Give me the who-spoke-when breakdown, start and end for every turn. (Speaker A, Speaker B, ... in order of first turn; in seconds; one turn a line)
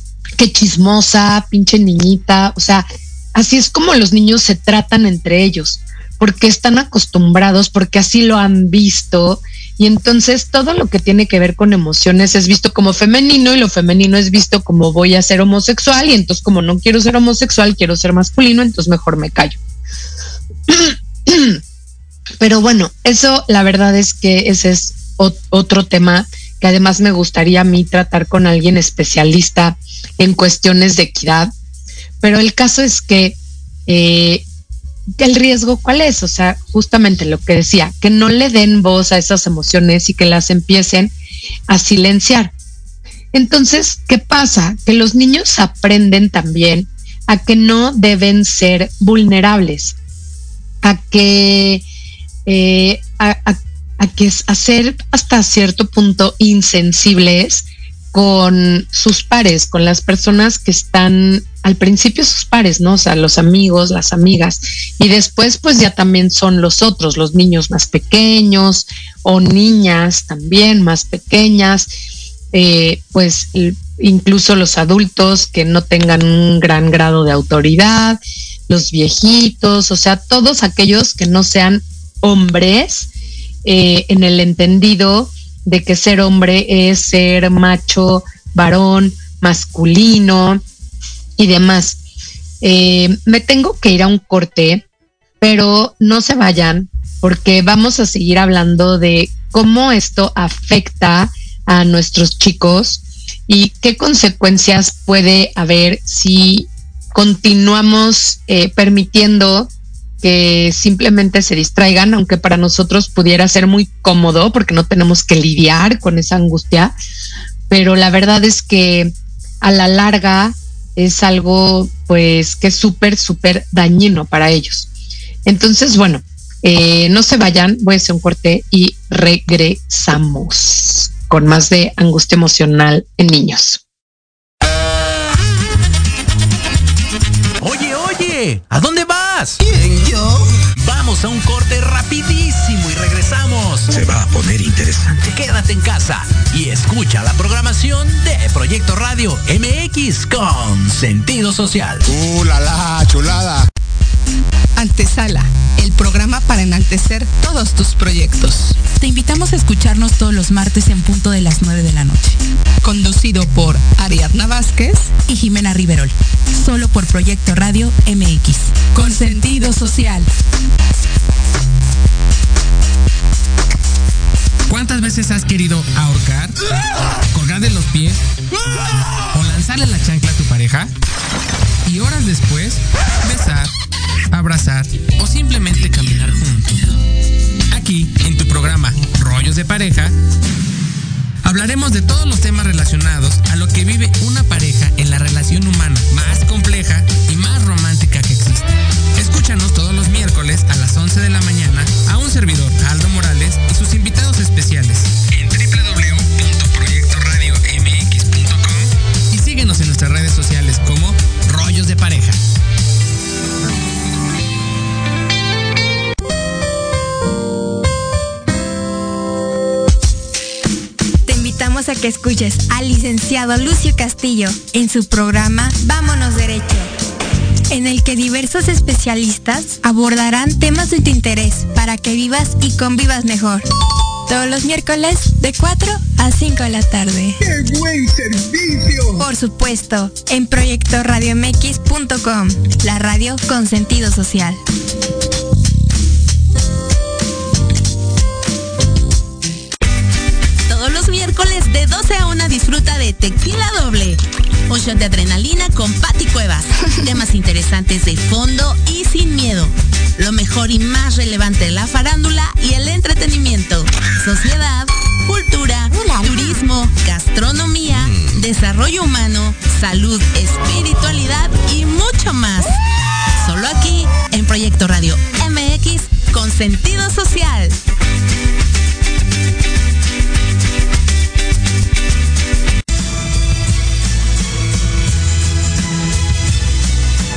Speaker A: 0.4-19.6
Speaker A: 20.7-21.6
Speaker A: 22.4-31.5
Speaker A: 32.2-34.5
Speaker A: 35.2-41.1
Speaker A: 41.7-42.5
Speaker A: 43.3-50.0
Speaker A: 50.8-51.9
Speaker A: 52.5-71.9
Speaker A: 72.5-83.1
Speaker A: 83.7-90.6
Speaker A: 91.4-92.0
Speaker A: 92.6-94.8
Speaker A: 95.4-117.0
Speaker A: 117.7-124.9
Speaker A: 125.5-133.8
Speaker B: 137.6-140.2
Speaker B: 140.8-152.1
Speaker C: 152.1-153.7
Speaker D: 154.8-158.8
Speaker E: 159.0-162.3
Speaker D: 161.6-161.9
Speaker D: 162.8-165.2
Speaker E: 165.2-166.1
Speaker E: 166.6-169.2
Speaker D: 168.9-170.3
Speaker F: 174.7-176.7
Speaker F: 177.3-178.2
Speaker F: 179.3-180.9
Speaker F: 181.9-183.7
Speaker F: 184.3-186.9
Speaker F: 187.7-190.1
Speaker F: 191.4-212.4
Speaker G: 221.2-226.9
Speaker G: 227.7-233.7
Speaker G: 234.3-237.5
Speaker C: 237.6-238.9
Speaker G: 239.1-244.6
Speaker H: 250.7-272.8
Speaker H: 273.4-277.8